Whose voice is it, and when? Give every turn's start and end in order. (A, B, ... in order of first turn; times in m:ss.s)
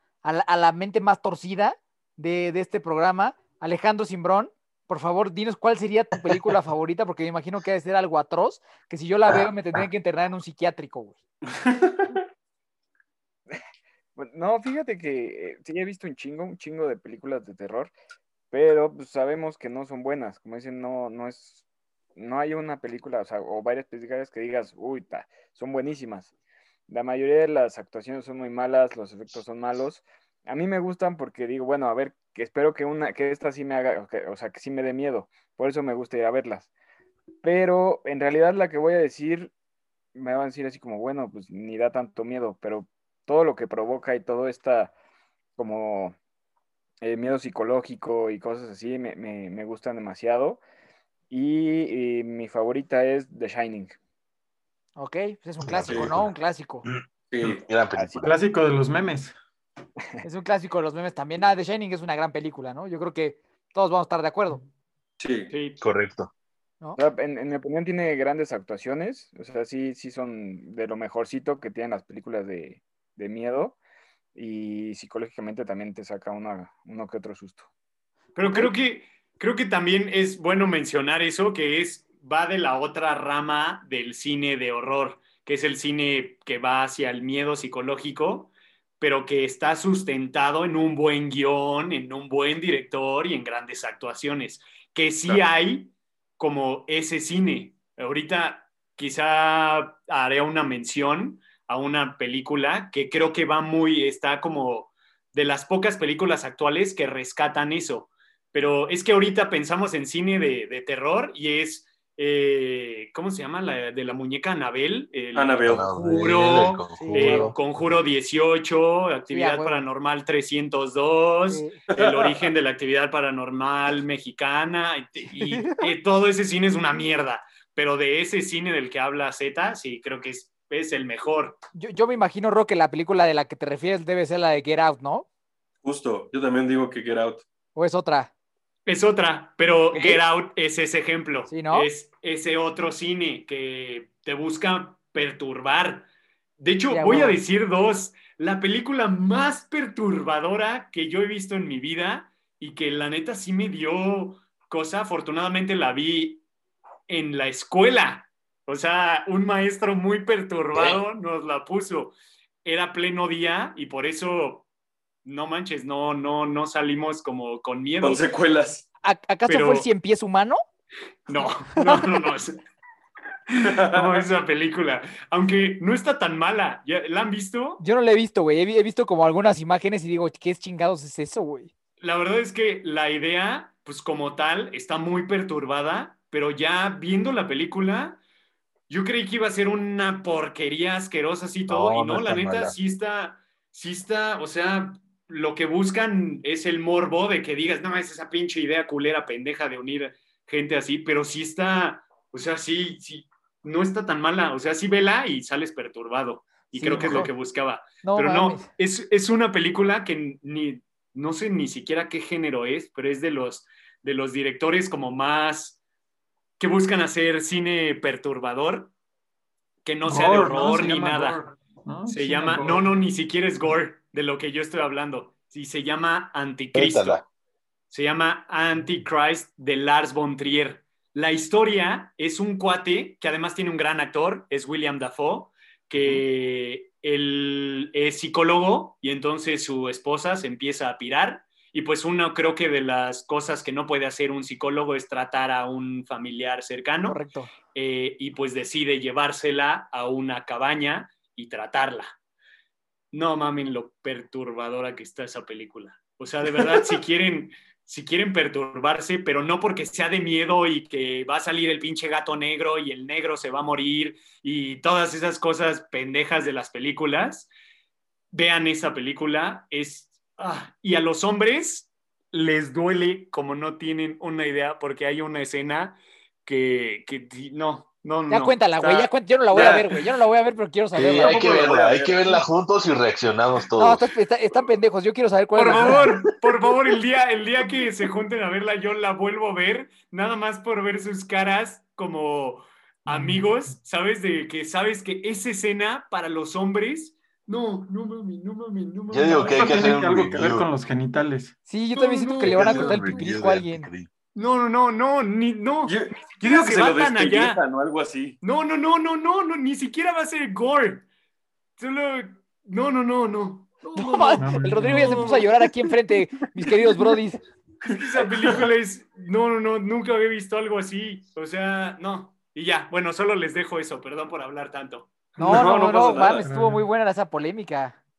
0:00.2-0:11.2 A
0:11.6-0:12.2 B
0:14.2-0:17.9 C
0:18.5-0:21.6 C
0:22.2-0:26.3 C
0:26.9-0:36.7 C
0:37.4-0:39.5 C
0:40.2-0:44.9 C
0:45.6-0:46.2 C
0:47.0-0:50.6 C
0:51.3-0:54.0 C
0:55.0-0:56.9 A
0:55.6-0:56.3 D
0:55.9-0:56.1 B
0:56.8-0:58.3 D
0:57.3-0:57.6 B
0:58.2-0:59.4 E
1:00.2-1:04.6 A
1:05.2-1:05.5 B
1:05.5-1:05.8 F
1:05.8-1:06.3 D
1:07.0-1:13.8 C
1:14.4-1:17.7 C
1:18.4-2:11.6 F
1:55.3-1:55.9 B
1:55.7-1:57.9 D
1:57.0-1:57.6 A
1:59.3-1:59.8 A
2:01.5-2:01.8 A
2:01.9-2:02.5 B
2:05.4-2:05.8 A
2:11.8-2:15.3 A
2:15.8-2:17.4 B
2:17.8-2:18.3 A
2:18.9-2:26.1 F
2:19.9-2:20.2 A
2:21.5-2:21.9 A
2:26.6-2:36.4 F
2:26.9-2:27.4 A
2:37.1-2:44.7 F
2:40.7-2:41.0 D
2:45.2-2:48.2 F
2:48.0-2:48.8 B
2:49.0-2:50.6 A
2:49.5-2:49.9 F
2:51.3-2:52.6 F
2:51.8-2:52.1 A
2:53.5-2:57.8 F
2:53.6-2:54.3 B
2:57.8-3:01.7 A
3:02.0-3:08.2 F
3:08.9-3:35.8 F
3:11.7-3:12.8 D
3:26.7-3:27.3 A
3:28.0-3:28.7 A
3:36.6-3:38.9 F
3:39.8-3:41.4 F
3:40.0-3:42.9 E
3:42.1-3:47.2 F
3:46.7-3:47.2 D
3:47.9-4:07.2 F
4:07.1-4:07.5 A
4:07.7-4:12.2 F
4:13.1-4:27.5 F
4:16.6-4:16.9 B
4:28.3-4:39.9 F
4:38.3-4:41.4 A
4:39.5-4:39.9 B
4:41.0-4:44.1 D
4:41.2-4:42.4 B
4:43.8-4:46.1 A
4:45.6-5:00.0 F
4:53.1-4:53.7 E
4:59.1-5:00.7 D
4:59.5-5:01.6 E
5:01.7-5:03.9 A
5:01.9-5:03.1 F
5:02.4-5:04.1 D
5:04.4-5:07.6 F
5:05.9-5:08.4 B
5:08.4-5:11.1 F
5:11.8-5:15.5 F
5:14.0-5:17.4 A
5:14.4-5:15.4 E
5:17.8-5:18.6 B
5:17.8-5:25.3 F
5:25.4-5:26.4 B
5:25.4-5:28.0 A
5:25.5-5:26.8 E